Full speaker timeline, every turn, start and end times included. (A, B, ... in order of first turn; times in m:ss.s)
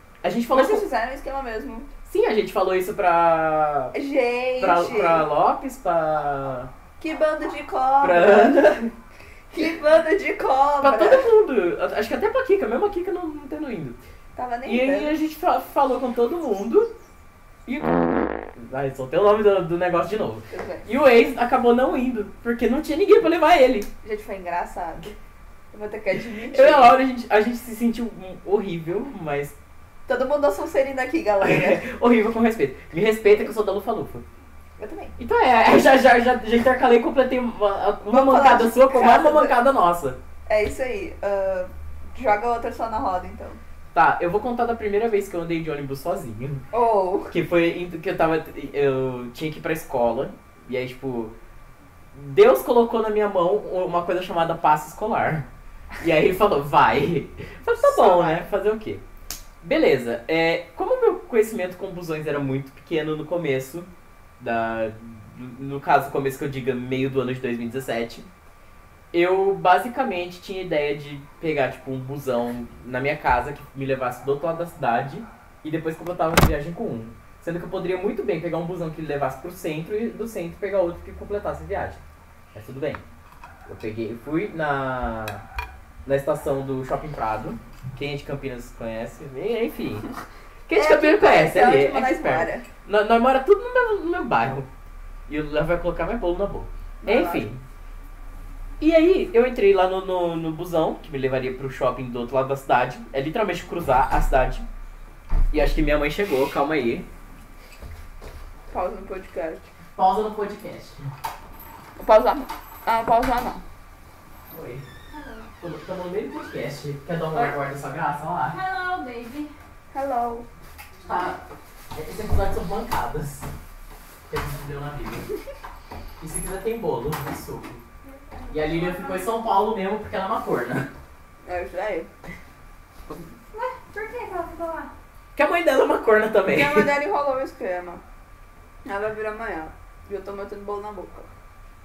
0:00.2-0:00.9 A
0:00.5-0:01.9 B
0:02.1-0:04.0 A
0:03.9-0:05.3 B
0:04.6-0:06.7 A
0:07.0-0:08.8 B
0:08.0-0:08.9 A
0:09.5-0:11.3 B
0:10.8-0:14.0 A
0:14.4-0:15.1 B
0:14.6-0:16.9 A
0:17.7-0:23.9 A
0:20.5-0:20.9 B
0:24.0-0:25.1 B
0:25.7-0:27.0 B
0:26.5-0:29.6 A
0:30.1-0:31.8 B
0:31.4-0:34.2 A
0:34.8-0:35.2 B
0:35.2-0:40.2 A
0:38.1-0:39.6 B
0:40.5-0:43.6 B
0:43.9-0:46.7 A
0:46.7-0:47.3 B
0:47.3-0:51.3 A
0:52.1-0:55.5 A
0:56.0-0:59.0 A
0:57.7-0:58.5 B
0:59.6-1:03.9 A
1:04.4-1:08.3 A
1:09.1-1:22.0 A
1:22.5-1:23.0 A
1:23.7-1:25.4 A
1:26.1-1:30.1 A
1:30.7-1:34.7 A
1:30.7-1:32.7 B
1:35.3-1:37.6 A
1:37.0-1:37.5 B
1:38.8-1:44.7 A
1:45.5-1:47.1 A
1:48.7-1:49.7 B
1:50.0-1:51.1 A
1:52.0-1:53.6 B
1:54.5-1:54.9 A
1:55.1-1:55.5 C
1:55.6-1:58.6 A
1:58.5-1:59.5 C
1:59.9-2:00.5 B
2:01.0-2:01.4 A
2:01.9-2:03.5 A
2:04.3-2:05.3 A
2:06.2-2:07.8 A
2:08.0-2:09.3 C
2:08.5-2:10.9 A
2:11.4-2:12.1 B
2:13.5-2:14.9 C
2:15.4-2:16.9 A
2:16.5-2:18.0 B
2:18.8-2:21.3 B